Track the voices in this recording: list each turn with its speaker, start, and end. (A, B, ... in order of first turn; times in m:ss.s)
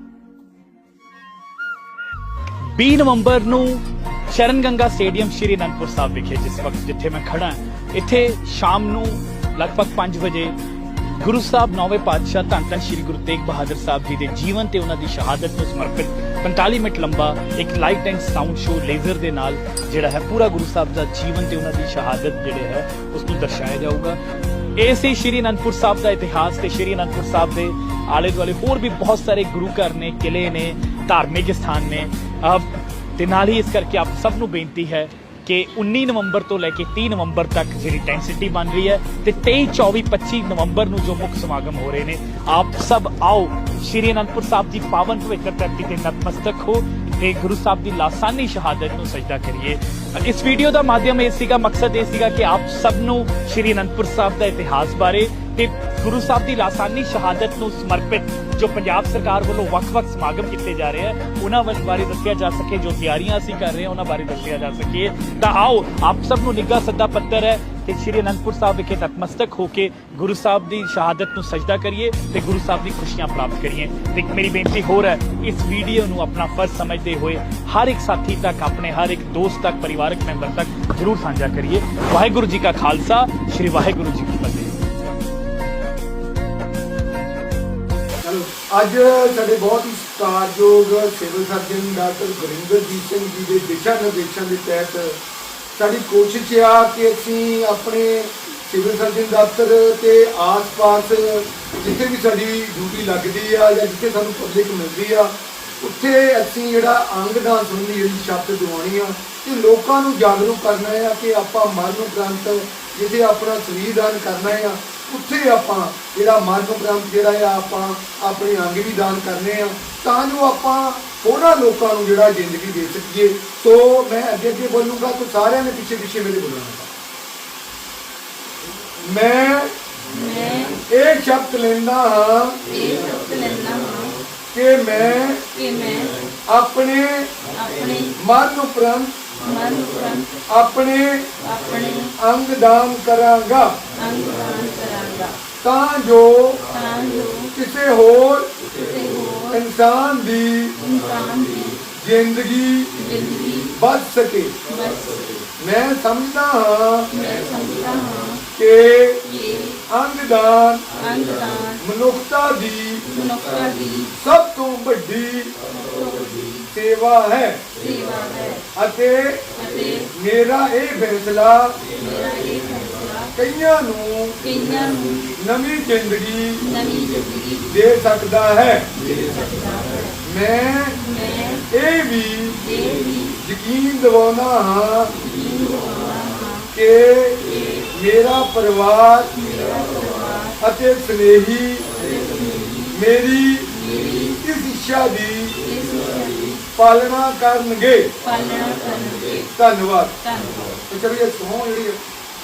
0:02.6-0:10.5 A
0:11.2-0:24.2 A
0:24.8-1:24.8 A
1:28.2-1:35.1 B
1:35.8-2:06.9 B
2:09.0-2:09.7 B
2:10.4-2:10.7 C
2:10.8-2:12.6 B
2:12.9-2:14.1 C
2:14.5-2:15.4 B
2:15.7-2:16.1 C
2:16.5-2:17.3 B
2:17.7-2:18.1 C
2:18.2-2:19.2 B
2:19.7-2:20.1 C
2:20.5-2:23.8 B
2:24.1-2:25.3 C
2:25.6-2:26.6 B
2:26.9-2:27.4 C
2:27.5-2:28.5 B
2:29.1-2:29.6 C
2:29.5-2:30.7 B
2:30.9-2:31.7 C
2:31.9-2:32.9 B
2:33.7-2:34.6 B
2:35.6-2:37.1 B
2:37.2-2:38.4 C
2:38.5-2:39.2 B
2:39.9-2:40.8 B
2:41.2-2:41.7 C
2:41.8-2:43.0 B
2:43.2-2:44.0 C
2:44.1-2:45.5 B
2:46.7-2:47.6 B
2:48.0-2:48.6 C
2:48.8-2:49.4 B
2:50.1-2:51.8 B
2:52.0-2:53.2 C
2:53.3-2:54.4 B
2:54.6-2:55.2 C
2:55.4-2:56.6 B
2:56.9-2:57.4 C
2:57.6-2:58.9 B
2:59.6-3:00.1 C
3:00.2-3:01.0 B
3:01.7-3:05.1 B
3:05.6-3:06.4 C
3:06.7-3:09.6 B
3:10.6-3:11.9 B
3:12.9-3:15.6 B
3:15.9-3:16.2 C
3:16.8-3:18.1 B
3:18.4-3:19.3 C
3:19.5-3:20.2 B
3:20.8-3:22.0 B